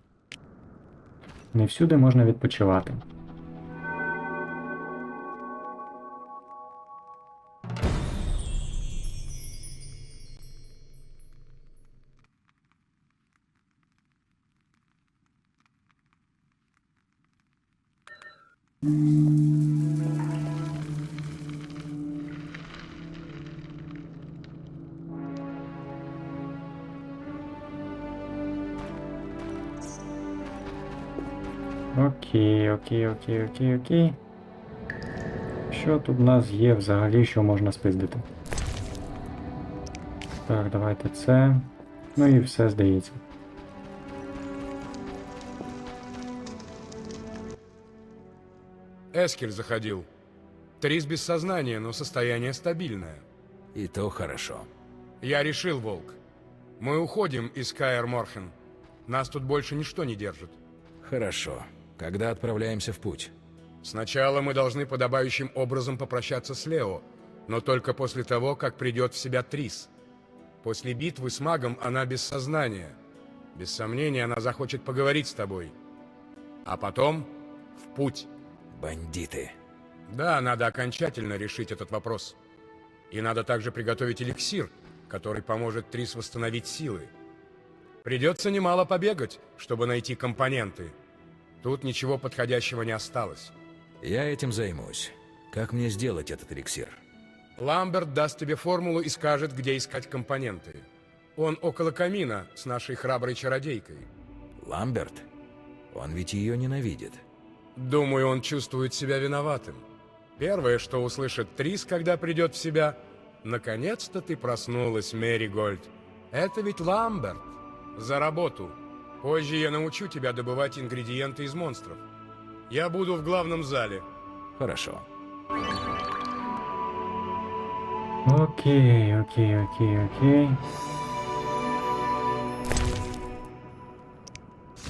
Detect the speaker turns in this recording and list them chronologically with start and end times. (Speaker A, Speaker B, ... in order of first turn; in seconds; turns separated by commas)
Speaker A: 1.5-3.0, Speaker A: 31.9-34.2, Speaker A: 35.7-38.2, Speaker A: 40.5-43.2, Speaker B: 49.1-50.1, Speaker B: 50.8-53.2, Speaker C: 53.7-54.7, Speaker B: 55.2-56.2, Speaker B: 56.8-58.5, Speaker B: 59.1-60.5, Speaker C: 61.0-63.3, Speaker B: 63.8-69.9, Speaker B: 70.6-73.0, Speaker B: 73.5-75.7, Speaker B: 76.6-78.3, Speaker C: 78.7-79.5, Speaker B: 80.1-82.4, Speaker B: 83.1-87.1, Speaker B: 88.0-90.9, Speaker B: 91.6-93.5, Speaker C: 94.0-97.0, Speaker B: 97.6-100.8, Speaker B: 101.4-104.1, Speaker C: 104.6-105.3, Speaker C: 105.9-107.2, Speaker B: 107.8-109.8, Speaker B: 110.4-122.0, Speaker B: 122.7-124.0, Speaker C: 124.6-125.0, Speaker A: 128.2-130.6